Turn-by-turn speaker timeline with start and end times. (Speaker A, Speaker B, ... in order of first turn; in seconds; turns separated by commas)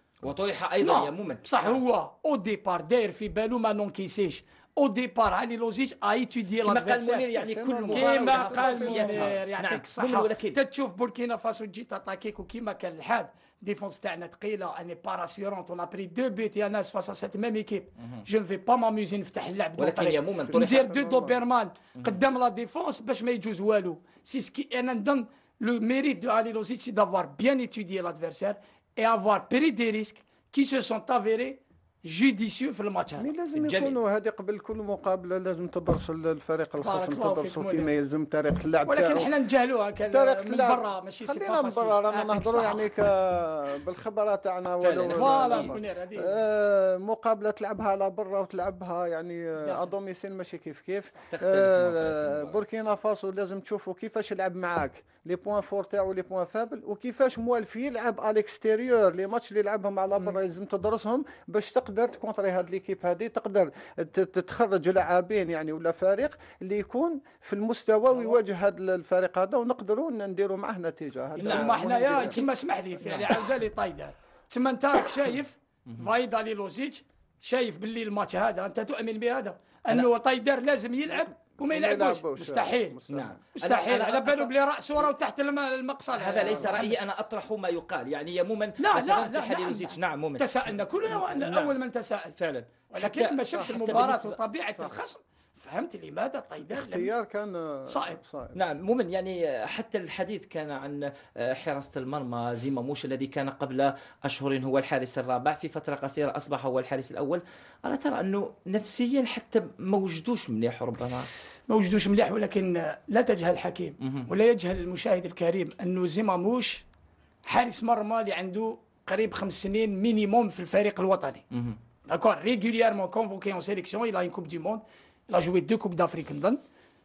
Speaker A: 0.2-1.8, Speaker B: 0.8-7.2, Speaker A: 6.6-10.6, Speaker C: 7.3-9.4, Speaker B: 7.9-33.3, Speaker A: 19.8-20.9, Speaker C: 20.5-21.4, Speaker C: 33.2-39.3, Speaker A: 33.5-34.0, Speaker B: 36.8-37.9, Speaker B: 38.8-43.0, Speaker C: 40.1-72.4, Speaker A: 44.8-45.7, Speaker B: 45.1-46.4, Speaker B: 49.6-49.9, Speaker A: 51.3-52.6, Speaker B: 68.1-68.4, Speaker B: 71.3-83.0, Speaker A: 71.4-72.3, Speaker A: 73.0-73.3, Speaker C: 81.7-83.4, Speaker A: 83.1-84.5, Speaker B: 83.5-86.9, Speaker A: 86.1-91.8, Speaker C: 86.4-86.9, Speaker B: 88.8-92.3, Speaker A: 92.4-94.4, Speaker B: 92.9-97.1, Speaker C: 93.6-94.1, Speaker C: 96.7-98.5, Speaker B: 97.9-98.2, Speaker A: 98.5-111.3, Speaker B: 111.7-116.8, Speaker A: 114.0-114.3, Speaker B: 117.4-121.4, Speaker A: 121.5-121.8, Speaker B: 122.1-126.6